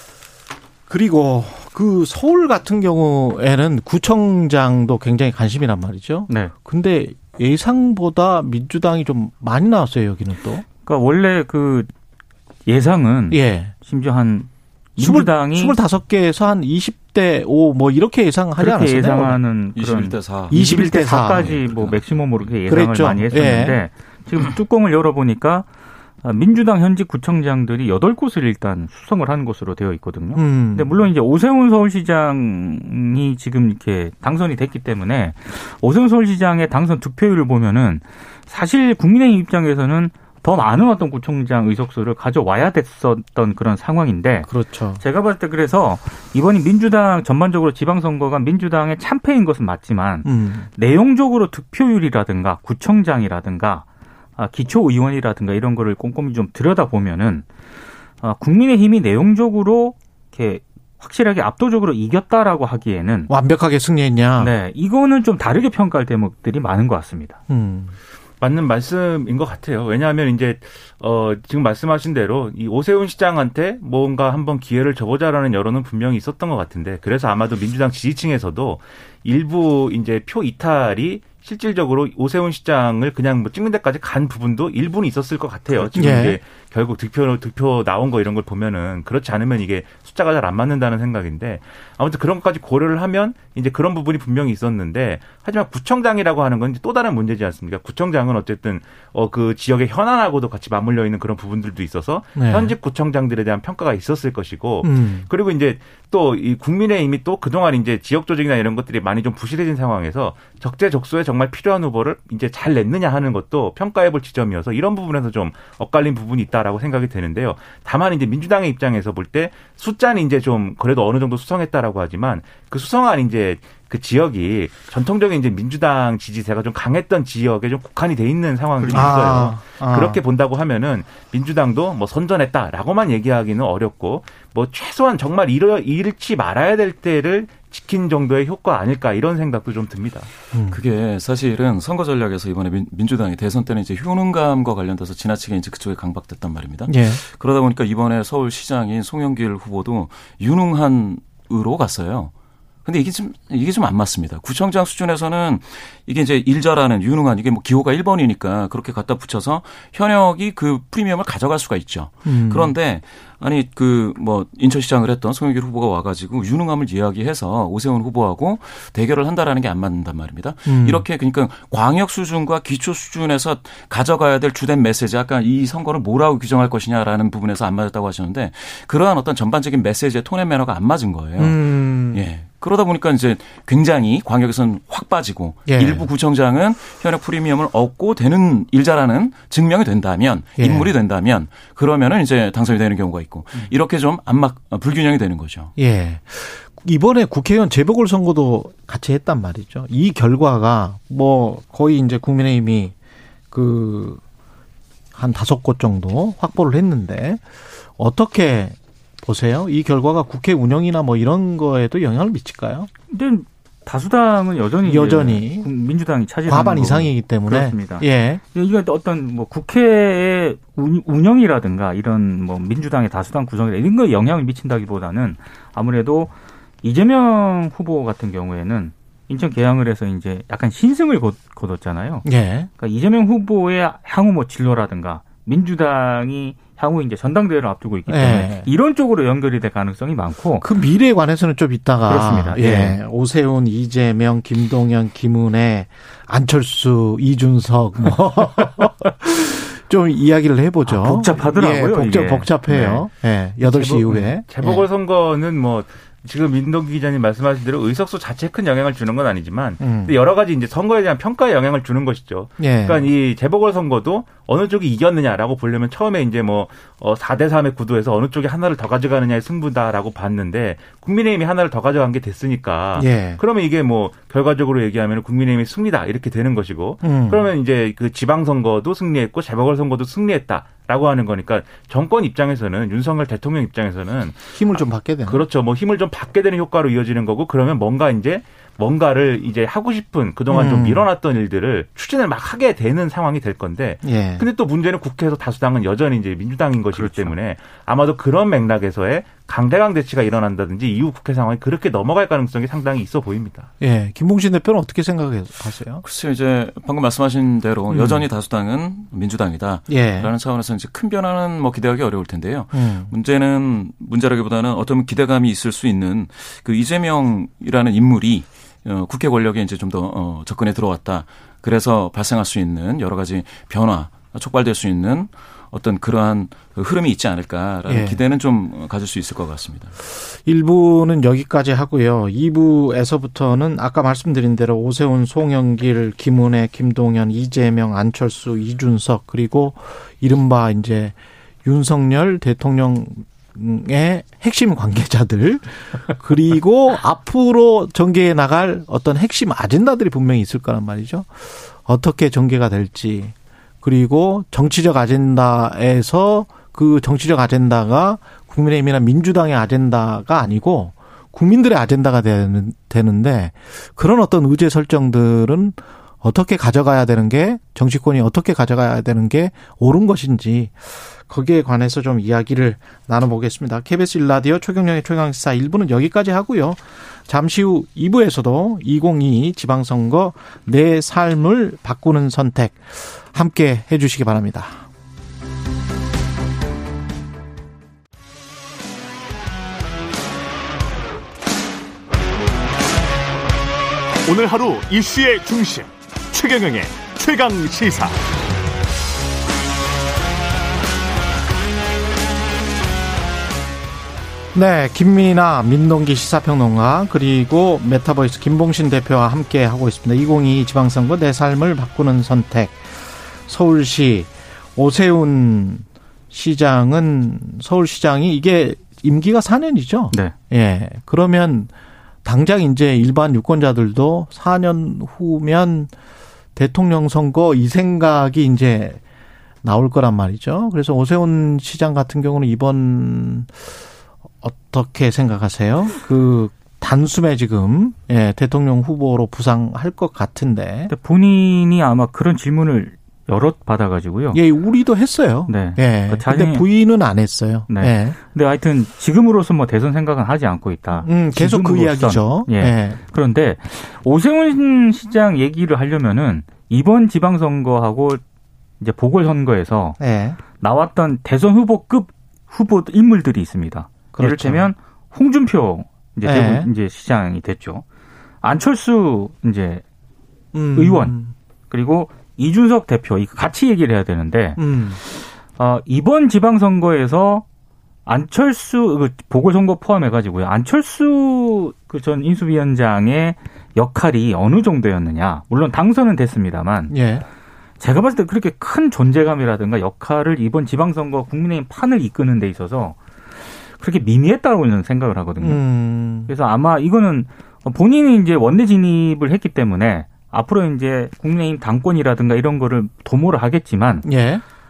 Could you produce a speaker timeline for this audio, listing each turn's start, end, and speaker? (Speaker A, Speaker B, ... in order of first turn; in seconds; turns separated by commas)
Speaker A: 0.9-10.7, Speaker B: 10.9-11.9, Speaker B: 12.7-15.8, Speaker A: 13.3-13.7, Speaker A: 15.0-19.4, Speaker B: 18.6-25.7, Speaker C: 19.8-22.6, Speaker A: 20.5-21.6, Speaker A: 22.7-23.8, Speaker B: 26.2-44.5, Speaker A: 30.4-31.0, Speaker A: 44.5-45.0, Speaker B: 45.0-53.9, Speaker A: 50.2-50.7, Speaker B: 54.4-57.5, Speaker B: 58.2-63.3, Speaker A: 63.3-64.5, Speaker B: 64.4-67.4, Speaker A: 67.5-68.0, Speaker D: 68.4-140.3, Speaker A: 86.0-86.4, Speaker A: 102.4-102.8, Speaker A: 104.8-105.3, Speaker B: 128.8-129.4, Speaker A: 128.9-130.2, Speaker A: 140.5-140.8, Speaker C: 140.7-152.3, Speaker A: 146.9-147.2, Speaker C: 152.8-195.7, Speaker A: 162.3-162.7, Speaker A: 170.7-171.0, Speaker A: 181.4-182.2, Speaker A: 185.7-186.1, Speaker A: 190.6-190.9, Speaker A: 195.8-202.9, Speaker A: 203.5-204.2, Speaker A: 205.2-207.4, Speaker A: 208.0-212.9, Speaker B: 213.1-232.3, Speaker A: 214.8-215.7, Speaker A: 216.5-218.4, Speaker A: 232.2-232.7, Speaker B: 232.8-240.7, Speaker A: 238.1-238.7, Speaker A: 240.6-254.8, Speaker B: 242.1-243.0, Speaker B: 250.9-253.1, Speaker D: 253.6-303.7, Speaker A: 259.8-260.1, Speaker A: 262.6-263.1, Speaker A: 273.0-273.4, Speaker A: 277.0-277.5, Speaker A: 284.5-285.4, Speaker A: 290.5-291.1, Speaker A: 294.0-294.5, Speaker B: 296.9-297.4, Speaker A: 303.8-306.0, Speaker C: 306.0-329.9, Speaker A: 307.9-308.2, Speaker A: 309.9-310.3, Speaker A: 312.7-313.1, Speaker A: 327.9-328.2, Speaker A: 330.2-384.9, Speaker E: 394.2-398.2, Speaker A: 404.5-421.7, Speaker A: 422.2-425.9, Speaker A: 426.6-429.0, Speaker A: 429.6-433.8, Speaker A: 434.4-440.9, Speaker B: 440.9-444.4, Speaker A: 444.3-448.2, Speaker B: 445.5-446.6, Speaker B: 447.7-458.2, Speaker A: 451.0-453.0, Speaker B: 458.8-460.0, Speaker A: 460.0-460.4, Speaker B: 460.6-467.8, Speaker A: 464.1-464.7, Speaker A: 466.2-466.7, Speaker B: 468.4-469.8, Speaker A: 470.5-471.3, Speaker B: 470.8-471.2, Speaker B: 471.7-477.4, Speaker A: 474.6-475.0, Speaker B: 478.1-486.9, Speaker A: 486.9-487.2, Speaker B: 487.8-493.0, Speaker B: 493.6-495.6, Speaker A: 495.4-496.3, Speaker B: 496.2-504.1, Speaker A: 504.0-504.4